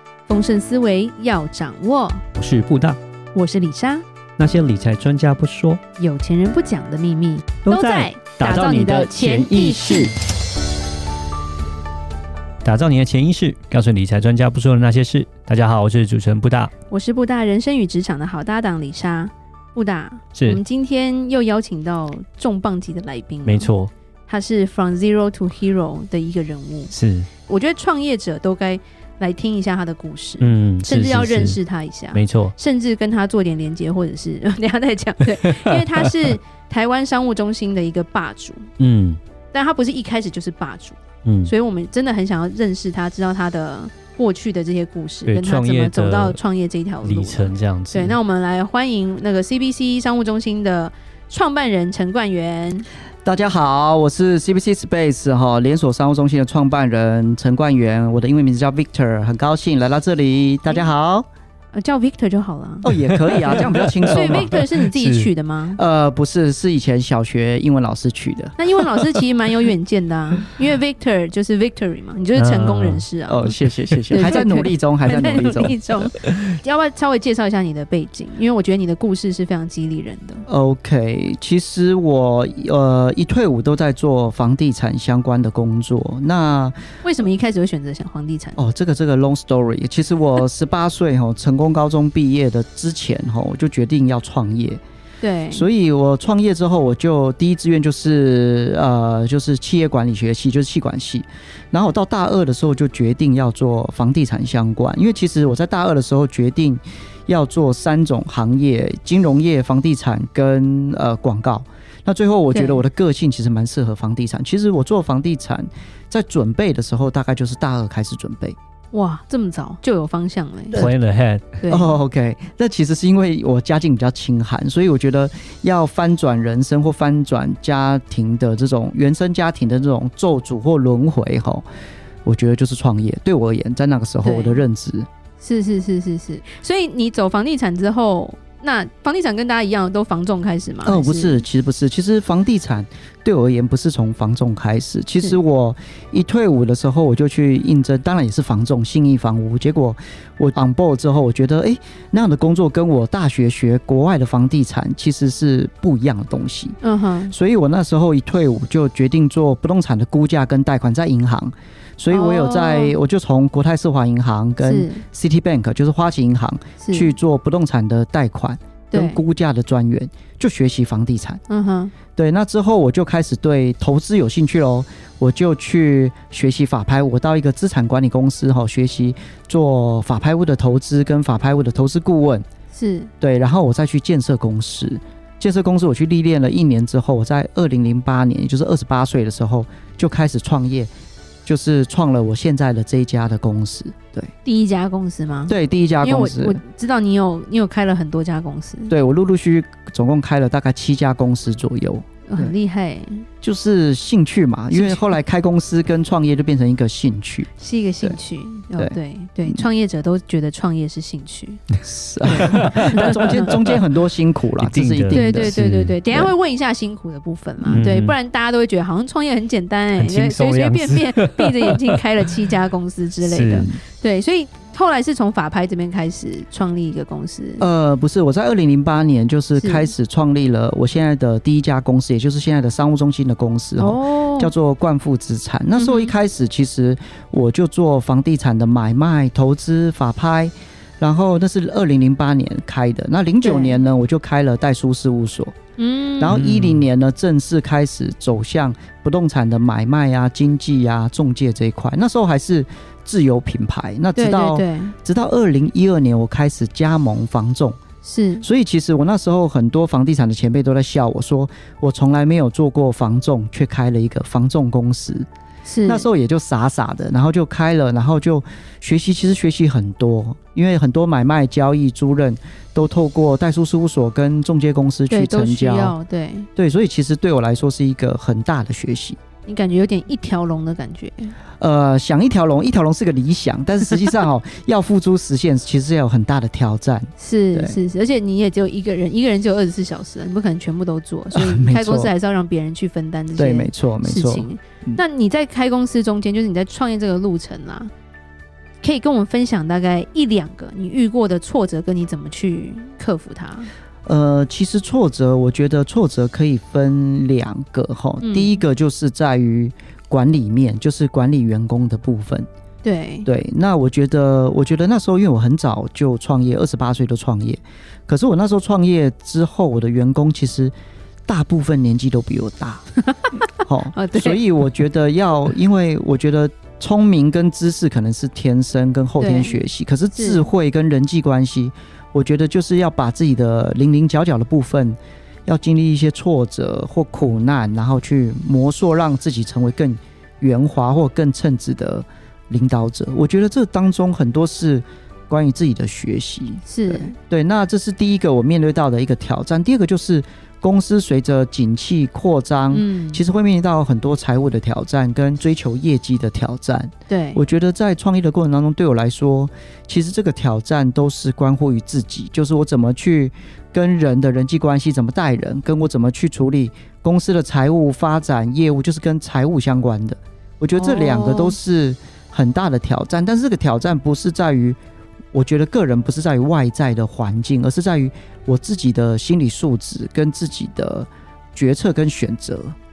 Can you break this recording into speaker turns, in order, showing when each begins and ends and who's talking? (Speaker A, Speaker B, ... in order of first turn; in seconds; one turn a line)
Speaker A: 0.3-2.2
Speaker B: 2.3-3.0
Speaker A: 3.3-4.0
Speaker B: 4.4-5.8
Speaker A: 6.0-10.1
Speaker B: 7.6-10.1
Speaker B: 12.6-16.7
Speaker A: 16.9-23.7
Speaker B: 20.3-20.6
Speaker B: 23.4-23.9
Speaker A: 24.3-26.9
Speaker B: 26.9-27.3
Speaker A: 27.5-38.7
Speaker B: 30.4-31.6
Speaker B: 32.1-32.5
Speaker B: 35.4-35.9
Speaker B: 38.8-39.2
Speaker A: 39.5-52.9
Speaker B: 41.2-41.5
Speaker B: 45.2-46.4
Speaker B: 47.0-48.2
Speaker C: 53.2-61.3
Speaker A: 61.7-62.9
Speaker C: 62.8-64.6
Speaker A: 63.4-65.8
Speaker B: 63.5-65.3
Speaker C: 65.8-69.2
Speaker A: 68.6-73.5
Speaker B: 72.3-73.0
Speaker C: 73.3-75.8
Speaker B: 73.9-74.3
Speaker A: 74.1-80.5
Speaker C: 80.5-86.8
Speaker A: 87.0-88.6
Speaker C: 88.6-94.8
Speaker A: 95.2-95.7
Speaker C: 95.5-118.5
Speaker A: 112.5-112.8
Speaker A: 118.9-120.8
Speaker B: 120.7-121.5
Speaker A: 121.6-122.0
Speaker C: 121.7-131.6
Speaker C: 132.2-135.1
Speaker A: 134.2-134.7
Speaker A: 135.4-141.4
Speaker C: 140.8-156.8
Speaker A: 156.8-157.3
Speaker C: 157.3-171.4
Speaker A: 162.1-163.0
Speaker A: 164.6-165.0
Speaker A: 166.8-167.1
Speaker A: 168.9-169.2
Speaker A: 171.5-171.9
Speaker C: 172.1-182.5
Speaker A: 182.7-183.1
Speaker C: 183.2-190.9
Speaker C: 191.4-194.3
Speaker A: 194.4-198.9
Speaker C: 195.5-196.6
Speaker C: 198.9-202.5
Speaker A: 202.2-203.2
Speaker C: 203.4-207.5
Speaker A: 204.7-205.1
Speaker A: 207.6-211.6
Speaker C: 208.8-209.6
Speaker C: 211.8-216.3
Speaker A: 212.3-213.5
Speaker B: 212.3-213.8
Speaker B: 214.6-215.9
Speaker A: 215.1-227.7
Speaker B: 217.7-218.1
Speaker B: 220.0-222.0
Speaker B: 223.2-223.8
Speaker C: 227.6-245.5
Speaker A: 229.6-229.9
Speaker A: 233.8-234.5
Speaker A: 235.8-236.1
Speaker A: 243.4-243.8
Speaker A: 245.8-246.3
Speaker C: 246.2-257.8
Speaker B: 246.3-246.8
Speaker A: 254.2-254.9
Speaker A: 258.0-258.4
Speaker C: 258.4-265.3
Speaker A: 265.6-266.1
Speaker C: 265.8-275.9
Speaker A: 275.1-276.5
Speaker C: 276.6-279.2
Speaker A: 279.4-281.4
Speaker C: 281.6-287.8
Speaker A: 287.2-297.9
Speaker C: 291.3-292.1
Speaker C: 293.3-295.0
Speaker A: 298.8-303.7
Speaker C: 304.0-312.5
Speaker A: 308.2-308.6
Speaker A: 312.8-313.3
Speaker C: 313.2-320.7
Speaker C: 321.3-322.8
Speaker A: 323.0-324.4
Speaker C: 323.6-374.8
Speaker A: 329.2-329.6
Speaker A: 330.1-330.4
Speaker A: 346.6-347.1
Speaker A: 352.7-353.2
Speaker A: 357.1-357.4
Speaker A: 370.7-371.6
Speaker C: 375.3-382.7